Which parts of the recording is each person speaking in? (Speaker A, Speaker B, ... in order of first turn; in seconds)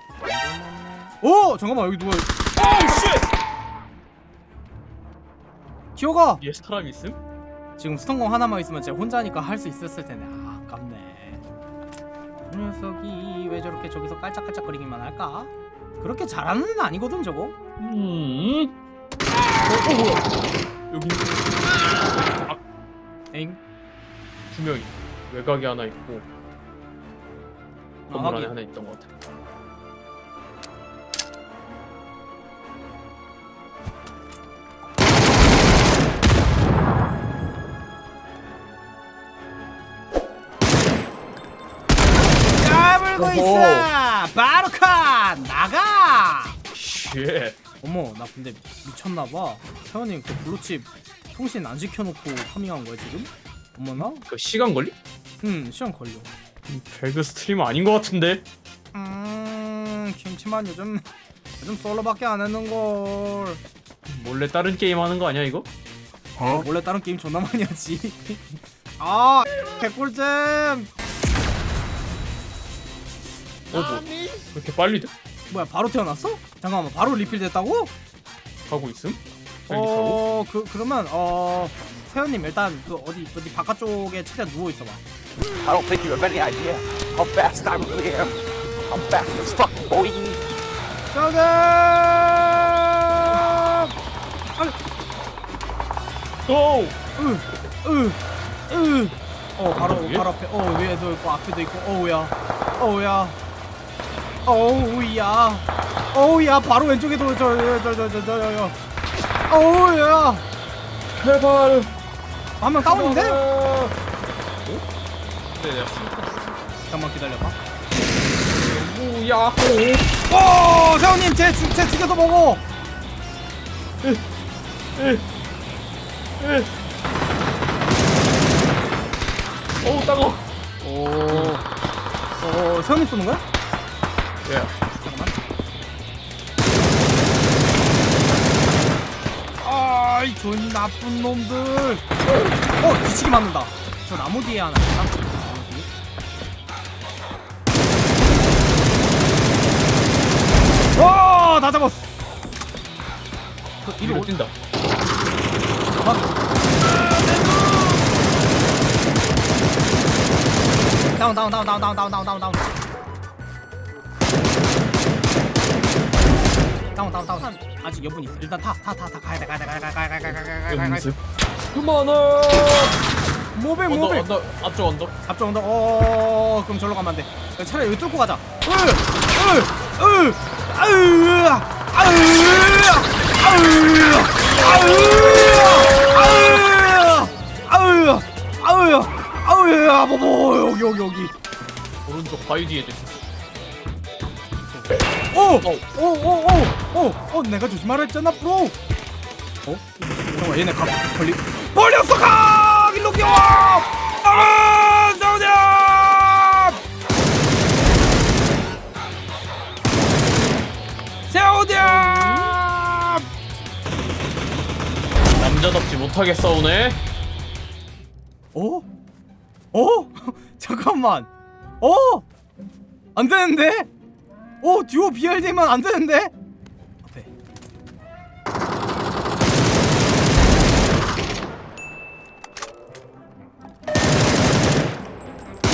Speaker A: 0.1-3.0, 6.0-6.4, 7.8-11.4, 12.5-17.5, 23.3-23.6, 28.1-28.5, 42.6-46.6, 47.8-54.2, 55.4-56.3, 58.9-61.0, 61.6-63.6, 66.4-70.9, 75.5-77.9, 79.7-85.0, 91.1-93.9, 97.2-103.3, 104.5-108.8, 109.5-110.4, 112.6-113.4, 116.9-117.6, 120.3-122.6, 130.8-131.6, 132.4-133.4, 135.0-135.3, 139.6-142.0, 142.8-145.9, 150.9-152.4, 153.8-154.3, 156.0-156.3, 157.0-158.0, 161.2-162.8, 166.9-171.1, 173.5-174.3, 175.2-191.3, 194.7-198.7, 199.7-206.8, 211.3-213.2, 218.5-218.8, 219.7-221.3, 221.8-222.2, 223.1-223.9, 224.6-226.3, 227.0-227.3
Speaker B: 2.6-3.2, 6.4-7.2, 17.8-18.7, 19.6-20.3, 20.9-21.4, 24.5-26.3, 28.1-29.1, 43.2-43.9, 46.7-47.6, 54.0-54.9, 56.7-58.4, 64.1-65.7, 73.7-75.1, 78.7-80.2, 96.5-97.0, 99.7-100.3, 111.2-111.9, 112.8-113.9, 115.5-116.6, 118.5-120.0, 125.0-125.2, 126.4-126.7, 129.8-130.4, 131.3-131.6, 134.4-134.7, 154.0-154.5, 170.7-171.2, 171.7-173.0, 173.8-175.1, 184.5-186.5, 192.1-193.2, 200.0-200.6, 211.7-212.6, 215.3-217.0
Speaker C: 85.6-88.3, 88.9-90.3